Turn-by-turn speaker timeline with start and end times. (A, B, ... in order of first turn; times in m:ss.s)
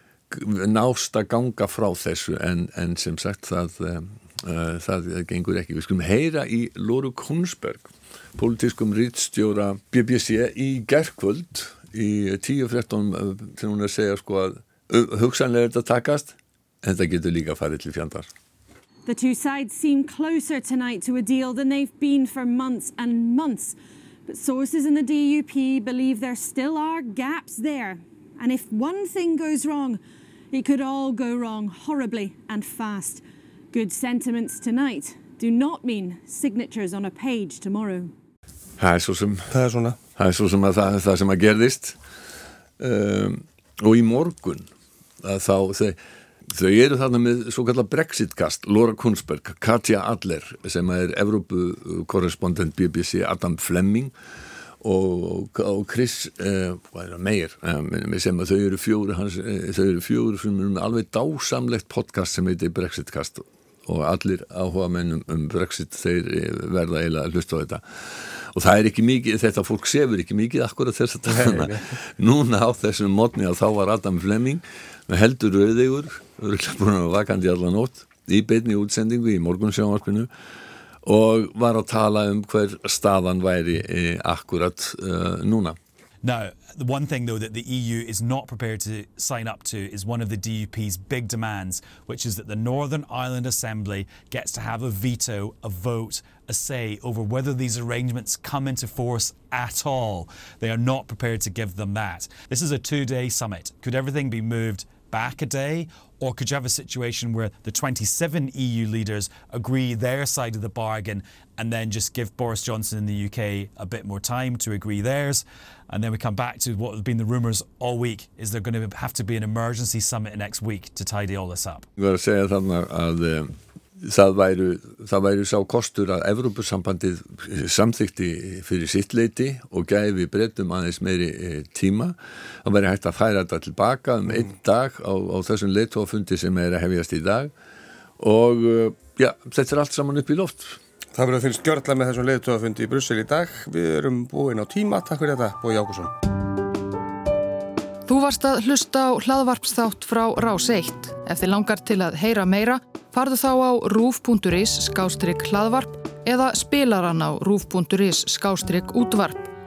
0:00.3-0:18.3 A
0:19.0-0:30.0 B
0:30.5-0:38.1 B
0:38.8-0:39.6 A
0:39.5-0:40.0 C
0:40.2-0:42.0 A
0:42.8-0:44.7 A
0:45.2-0:46.0 A
0:46.5-0:54.1 A
0:54.8-1:20.3 A
1:11.3-1:11.9 C
1:21.0-1:25.8 A
1:26.2-2:01.8 D
2:02.0-2:17.5 A
2:18.2-2:20.8 A
2:21.1-2:26.1 C
2:28.1-2:39.5 E